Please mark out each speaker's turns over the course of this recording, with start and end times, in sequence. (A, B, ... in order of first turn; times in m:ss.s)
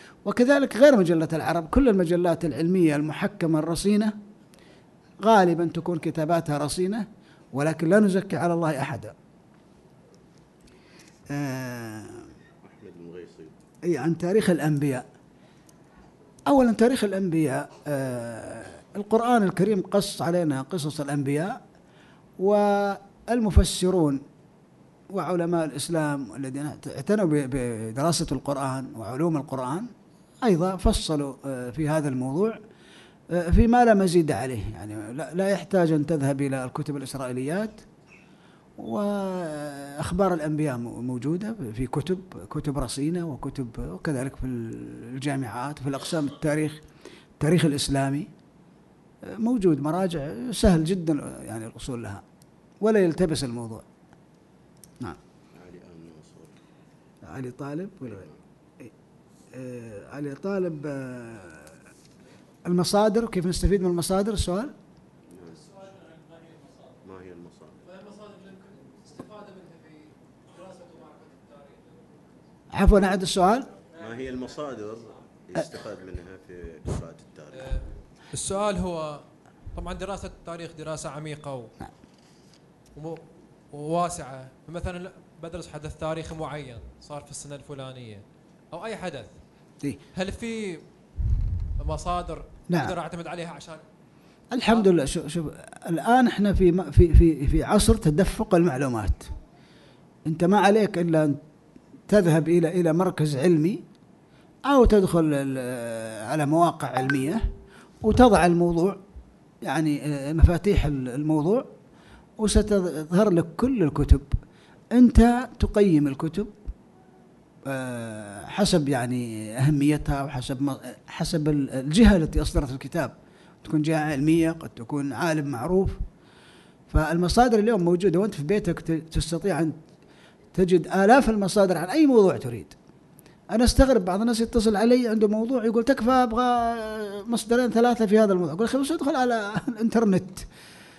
0:00.2-0:04.1 A
0:05.2-0:09.1 A
0:11.3-0:12.3 A
0:12.6-0:13.6 B
0:13.8-0:15.0 A
0:16.5-0:21.6 A
0:22.4-0:24.2 A
0:25.1-0:29.9 A
0:30.4-0:32.6 A
0:33.3-0:37.8 A
0:38.8-0:46.8 A
0:47.4-0:48.3 A
0:49.3-0:52.2 A
0:52.8-0:53.8 A
0:55.5-0:56.6 B
0:57.2-0:58.2 A
0:58.0-0:58.4 B
0:59.5-1:01.7 A
1:02.6-1:04.7 A
1:05.3-1:05.8 B
1:07.0-1:07.8 B
1:07.8-1:12.1 C
1:12.7-1:13.7 A
1:13.9-1:17.8 B
1:17.5-1:19.2 C
1:19.7-1:21.7 C
1:23.0-1:29.4 C
1:30.1-1:30.8 C
1:31.8-1:33.8 C
1:32.7-1:33.0 A
1:34.5-1:39.3 A
1:40.3-1:41.4 A
1:42.1-1:43.8 A
1:44.7-1:47.4 A
1:48.0-1:49.0 A
1:49.6-1:51.7 A
1:52.4-1:54.3 A
1:54.9-1:56.5 A
1:57.7-2:06.0 A
2:06.9-2:09.8 A
2:10.5-2:12.7 A
2:13.5-2:20.4 A